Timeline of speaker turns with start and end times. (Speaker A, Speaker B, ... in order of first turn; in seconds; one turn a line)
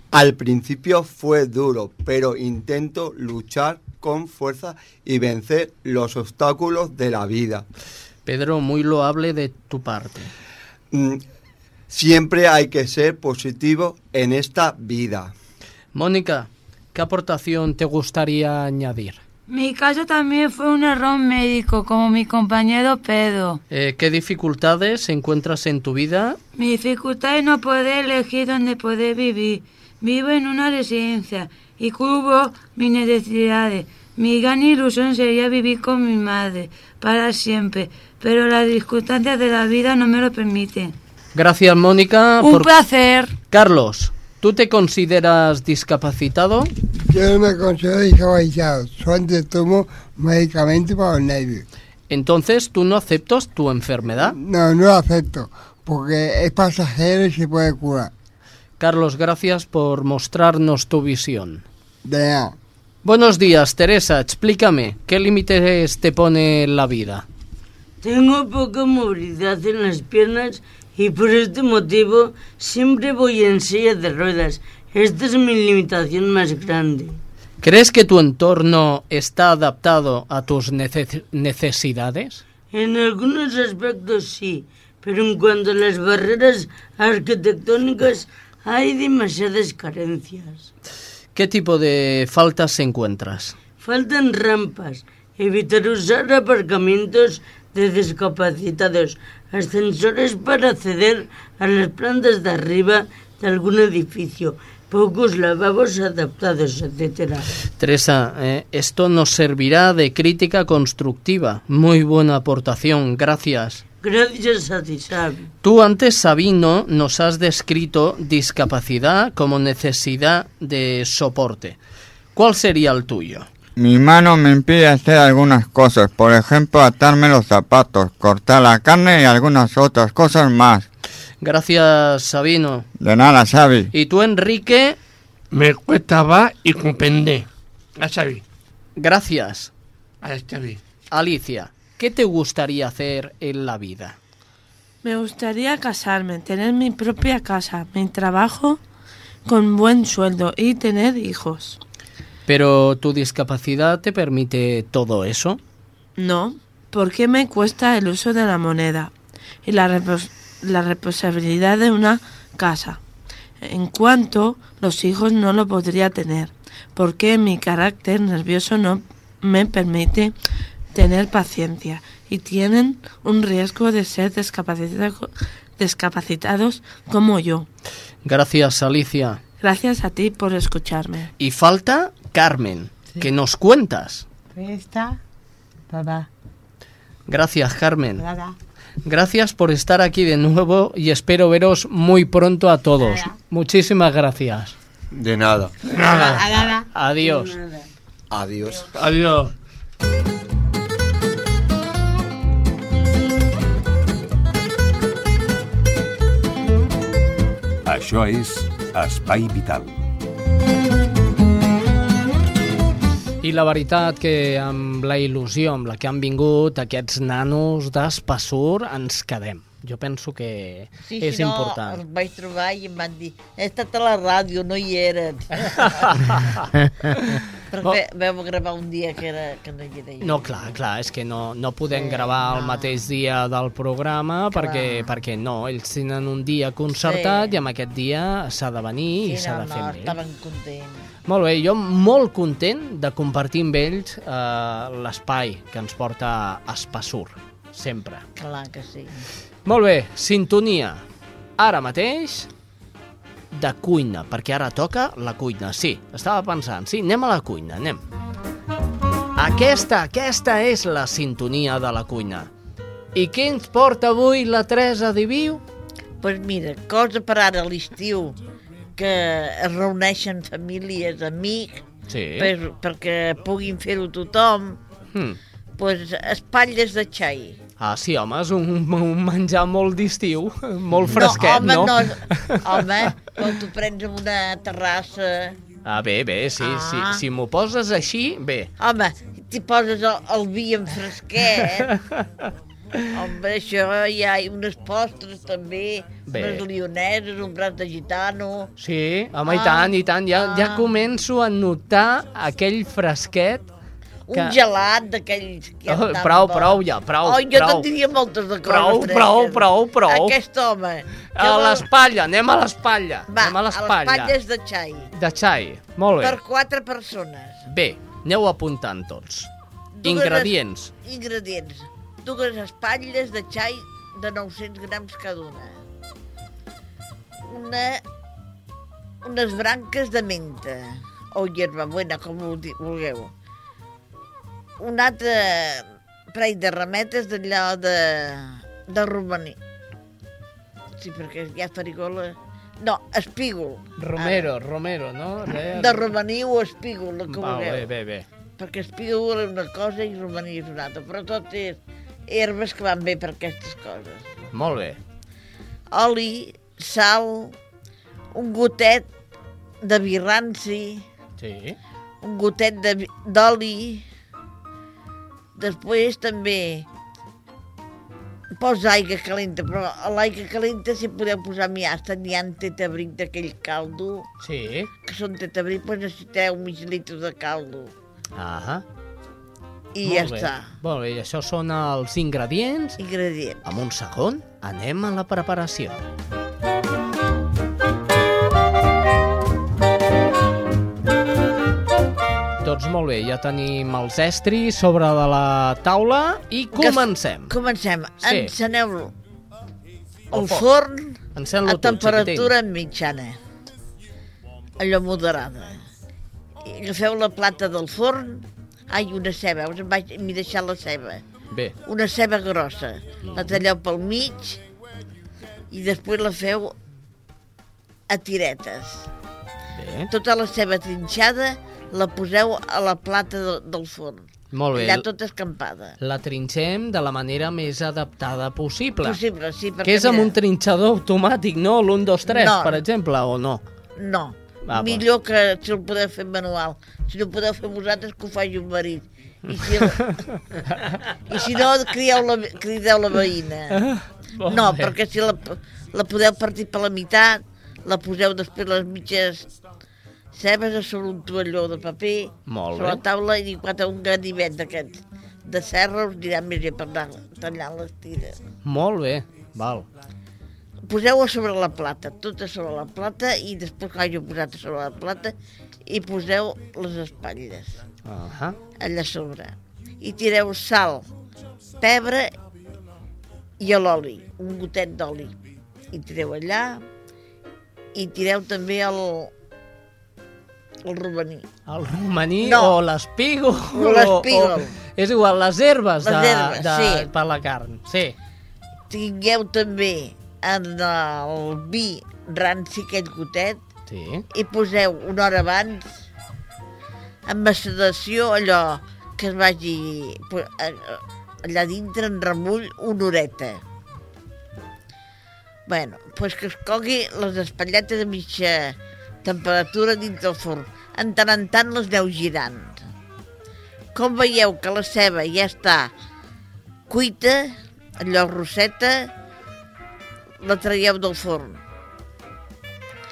Speaker A: 0.1-7.6
Speaker B: 8.2-10.3
Speaker A: 10.9-11.2
Speaker A: 11.9-15.3
Speaker B: 15.9-19.2
Speaker C: 19.5-23.6
Speaker B: 23.7-26.4
Speaker C: 26.6-40.9
Speaker B: 41.3-42.7
Speaker C: 42.4-43.4
Speaker B: 43.5-46.7
Speaker D: 47.0-51.6
Speaker B: 52.1-54.4
Speaker D: 54.2-58.1
Speaker B: 58.8-61.6
Speaker D: 62.0-62.5
Speaker B: 63.0-67.2
Speaker E: 68.0-77.2
Speaker B: 77.6-82.4
Speaker E: 82.7-90.7
Speaker B: 91.3-93.5
Speaker E: 93.8-107.5
Speaker B: 107.8-113.8
Speaker E: 114.0-115.5
Speaker B: 115.6-121.8
Speaker B: 122.3-123.5
Speaker F: 123.8-130.8
Speaker B: 131.4-132.8
Speaker F: 133.0-133.9
Speaker B: 133.9-135.0
Speaker G: 135.5-137.5
Speaker G: 138.0-138.4
Speaker B: 139.0-139.7
Speaker G: 140.2-140.8
Speaker B: 141.1-144.2
Speaker H: 145.0-148.8
Speaker H: 149.4-151.8
Speaker B: 152.5-155.6
Speaker H: 156.2-159.1
Speaker H: 159.6-163.0
Speaker H: 163.6-170.3
Speaker H: 170.9-177.7
Speaker B: 178.2-179.4
Speaker H: 179.6-181.3
Speaker B: 181.4-184.2
Speaker I: 184.5-185.2
Speaker I: 185.9-186.3
Speaker B: 187.3-188.2
Speaker I: 188.2-188.5
Speaker B: 189.0-194.7
Speaker I: 193.0-193.3
Speaker A: 195.1-195.8
Speaker I: 196.0-196.8
Speaker B: 196.0-197.6
Speaker A: 198.3-199.1
Speaker G: 199.0-199.5
Speaker J: 207.8-209.9
Speaker B: 213.4-222.0
Speaker K: 221.1-226.3
Speaker B: 225.7-227.9
Speaker K: 227.7-230.7
Speaker B: 230.2-240.2
Speaker K: 231.9-233.0
Speaker K: 234.5-235.1
Speaker K: 237.0-237.5
Speaker K: 239.2-241.1
Speaker B: 241.2-248.2
Speaker K: 248.3-249.2
Speaker B: 249.6-251.0
Speaker B: 251.6-252.5
Speaker B: 253.5-258.0
Speaker B: 259.4-262.5
Speaker B: 263.1-265.6
Speaker K: 266.2-268.4
Speaker K: 269.0-271.9
Speaker B: 272.1-272.5
Speaker K: 272.4-274.8
Speaker K: 275.8-277.6
Speaker B: 277.8-282.6
Speaker K: 281.1-285.6
Speaker B: 285.8-288.7
Speaker K: 286.6-287.2
Speaker K: 288.8-291.9
Speaker B: 291.9-292.2
Speaker K: 293.1-298.7
Speaker B: 296.3-296.6
Speaker B: 298.8-303.7
Speaker K: 299.5-300.8
Speaker K: 304.3-311.9
Speaker B: 304.3-304.6
Speaker B: 305.9-307.9
Speaker B: 308.6-310.4
Speaker B: 311.3-314.3
Speaker K: 313.3-315.1
Speaker B: 315.1-316.4
Speaker K: 316.2-317.6
Speaker B: 317.7-319.5
Speaker K: 319.9-325.8
Speaker B: 320.0-320.9
Speaker K: 327.4-328.0
Speaker K: 329.2-333.3
Speaker K: 334.8-339.6
Speaker K: 341.0-344.5
Speaker B: 344.0-346.1
Speaker K: 345.7-347.8
Speaker B: 347.3-348.2
Speaker K: 348.6-354.3
Speaker B: 354.5-355.0
Speaker K: 355.9-357.6
Speaker K: 358.3-359.1
Speaker K: 359.8-361.0
Speaker B: 361.4-361.8
Speaker K: 362.2-364.0
Speaker K: 365.6-366.9
Speaker K: 368.6-374.3
Speaker B: 374.4-374.9
Speaker K: 375.1-377.9
Speaker B: 378.3-378.8
Speaker K: 379.9-380.7
Speaker B: 380.0-383.0
Speaker K: 383.0-383.6
Speaker B: 383.6-386.0
Speaker B: 392.6-397.5
Speaker K: 396.8-399.1
Speaker B: 398.2-398.5
Speaker B: 400.3-400.6
Speaker K: 400.3-403.4
Speaker B: 401.4-402.5
Speaker K: 404.8-405.8
Speaker K: 406.6-411.2
Speaker B: 411.5-411.8
Speaker K: 411.8-414.6
Speaker B: 413.3-413.6
Speaker K: 415.7-416.7
Speaker K: 418.1-419.1
Speaker B: 419.7-420.1
Speaker K: 420.1-426.0
Speaker B: 424.5-425.1
Speaker B: 426.0-429.2
Speaker K: 429.0-430.3
Speaker B: 429.8-433.6
Speaker K: 432.2-432.8
Speaker K: 434.0-440.1
Speaker B: 434.7-435.0
Speaker B: 439.6-440.1
Speaker K: 441.3-443.8
Speaker B: 443.7-444.9
Speaker K: 444.5-449.5
Speaker K: 450.3-458.4
Speaker B: 452.5-453.0
Speaker B: 458.6-459.9
Speaker K: 460.8-465.3
Speaker K: 465.9-467.8
Speaker B: 468.0-468.6
Speaker K: 468.8-471.1
Speaker K: 471.8-472.3
Speaker K: 473.6-475.4
Speaker K: 475.9-476.8
Speaker K: 477.9-479.3
Speaker K: 480.8-481.5
Speaker B: 481.7-488.1
Speaker K: 482.4-482.7
Speaker K: 483.7-484.7
Speaker K: 486.0-487.1
Speaker K: 488.9-493.6
Speaker B: 493.9-494.2
Speaker K: 494.3-496.0
Speaker K: 497.2-503.6
Speaker K: 505.7-512.8
Speaker K: 513.9-515.9
Speaker K: 516.9-519.1
Speaker K: 520.4-521.6